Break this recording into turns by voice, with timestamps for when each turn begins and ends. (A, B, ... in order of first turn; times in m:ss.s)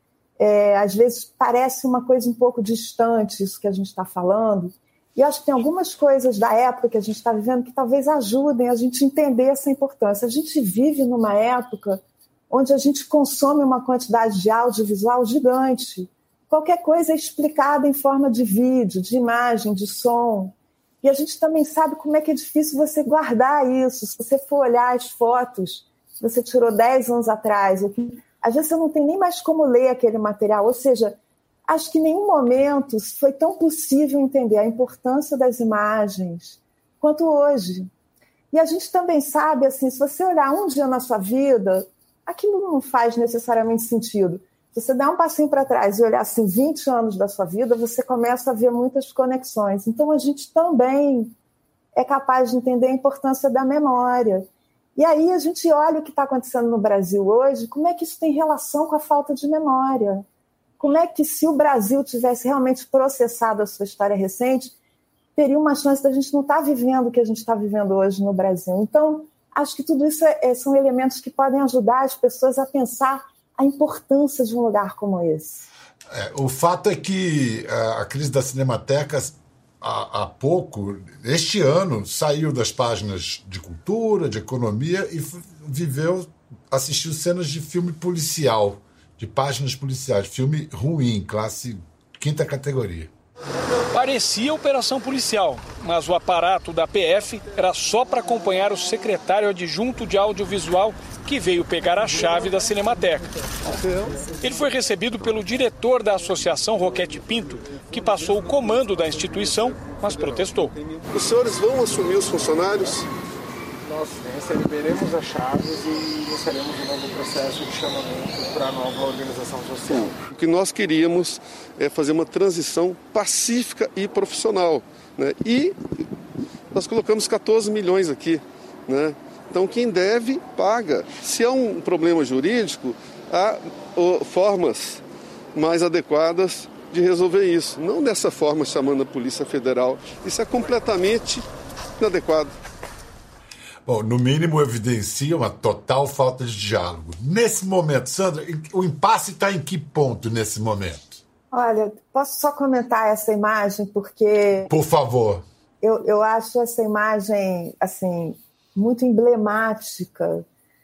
0:00.4-0:37.9 A
0:38.5-0:51.3 A
0:51.9-1:00.2 A
1:00.8-1:04.7 A
1:05.4-1:15.7 A
1:16.1-1:33.1 B
1:33.9-1:43.3 C
1:43.7-1:44.2 D
1:44.4-1:50.7 C
1:51.0-1:53.1 D
1:53.8-2:00.2 E
1:59.9-2:05.8 D
2:06.7-2:15.0 D
2:15.5-2:21.4 D
2:22.0-2:22.5 D
2:23.8-2:31.2 B
2:31.5-2:34.7 A
2:34.7-2:35.4 B
2:35.8-2:40.4 A